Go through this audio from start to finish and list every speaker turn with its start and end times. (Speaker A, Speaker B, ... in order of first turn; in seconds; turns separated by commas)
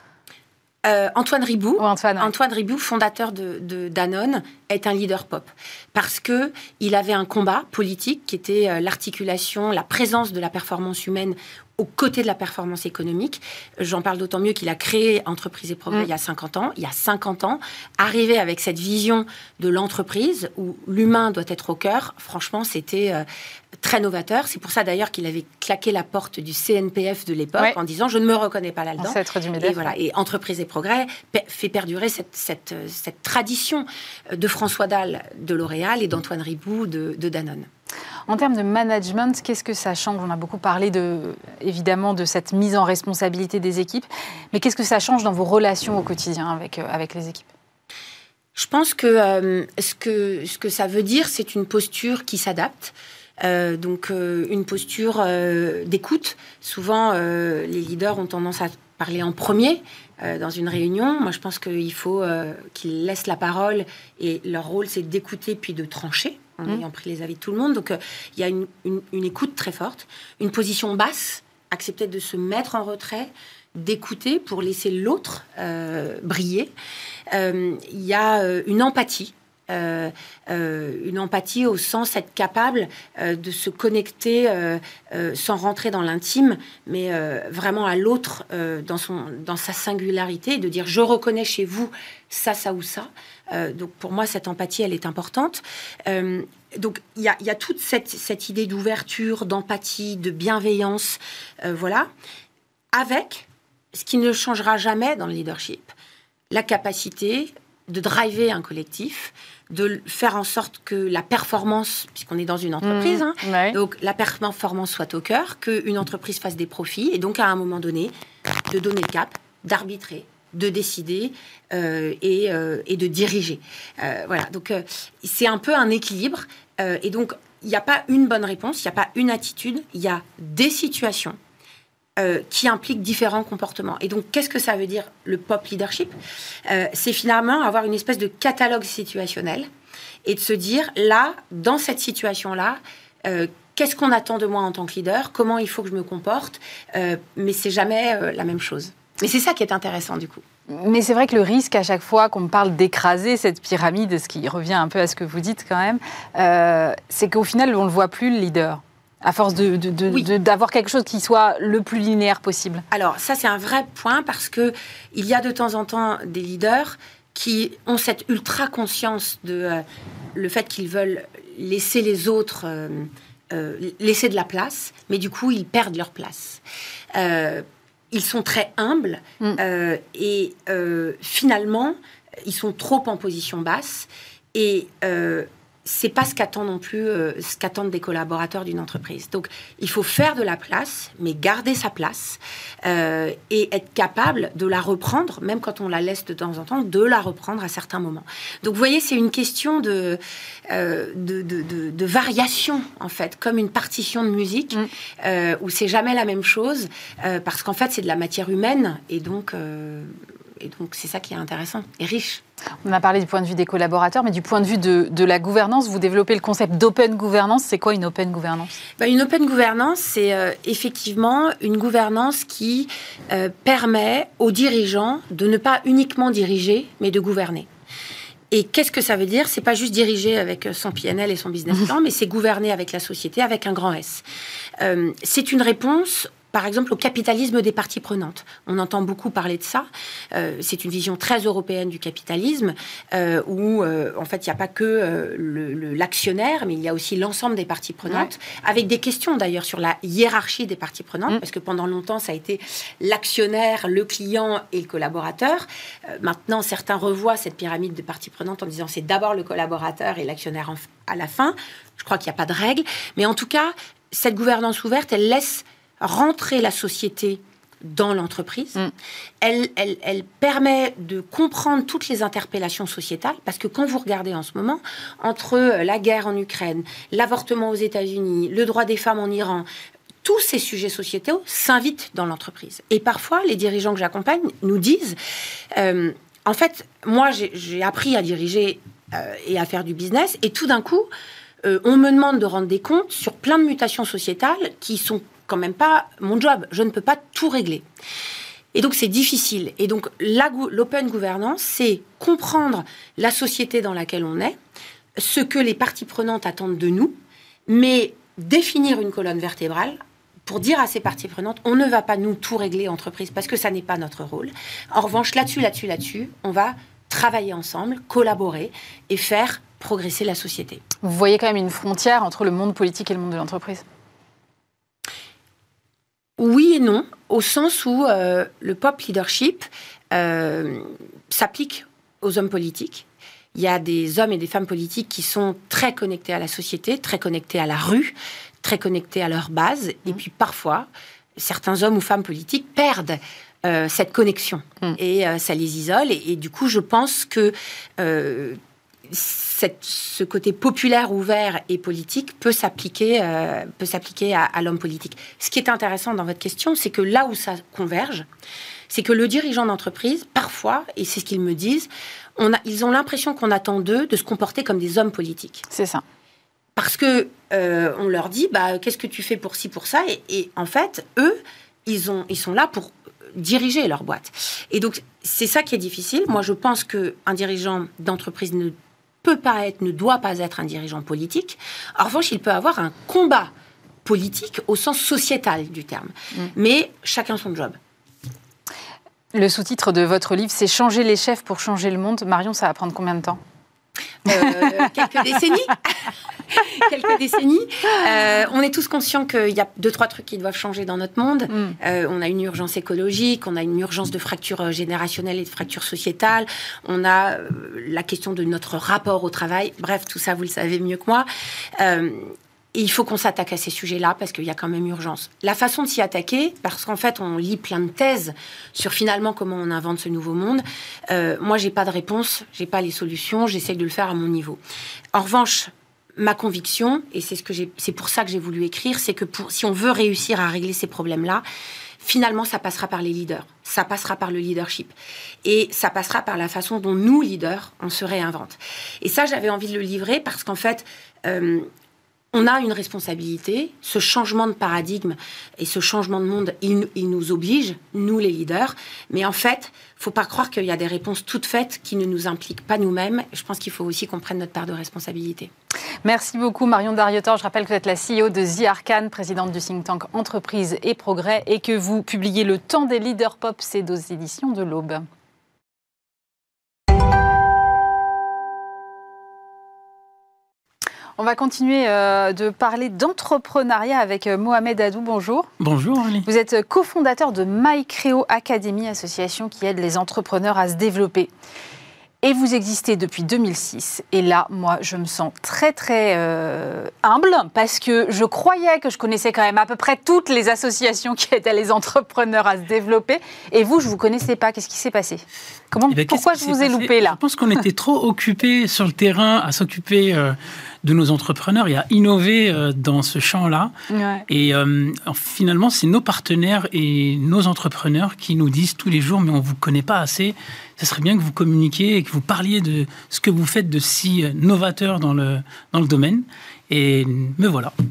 Speaker A: 0.8-23.2, Speaker B: 1.8-2.3, Speaker A: 23.8-37.7, Speaker B: 29.0-29.8, Speaker B: 38.3-47.5, Speaker A: 48.5-76.7, Speaker A: 77.3-102.1, Speaker A: 102.9-105.9, Speaker A: 106.5-118.1, Speaker B: 112.8-113.8, Speaker A: 118.7-131.4, Speaker A: 132.2-136.1, Speaker A: 136.7-139.7, Speaker A: 140.2-150.4, Speaker B: 150.7-162.8, Speaker A: 162.9-169.8, Speaker A: 170.3-176.6, Speaker A: 177.1-212.4, Speaker B: 212.8-218.8, Speaker A: 219.0-227.7, Speaker A: 228.5-234.2, Speaker A: 234.8-268.8, Speaker A: 269.4-279.7, Speaker A: 280.2-285.2, Speaker A: 285.7-291.1, Speaker A: 291.6-297.8, Speaker A: 298.7-304.6, Speaker A: 305.2-320.8, Speaker B: 321.0-323.8, Speaker A: 326.4-358.2, Speaker A: 358.9-365.6, Speaker B: 365.7-366.0, Speaker A: 366.8-383.5, Speaker A: 384.0-387.8, Speaker B: 389.3-393.4, Speaker A: 394.3-424.6, Speaker B: 394.3-394.6, Speaker A: 425.1-431.4, Speaker A: 432.0-434.9, Speaker A: 435.4-441.7, Speaker A: 442.3-455.5, Speaker B: 456.0-465.0, Speaker B: 471.2-475.5, Speaker C: 475.6-476.3, Speaker B: 476.2-481.3, Speaker B: 482.2-497.2, Speaker C: 495.9-503.7, Speaker B: 503.9-504.2, Speaker C: 504.3-517.7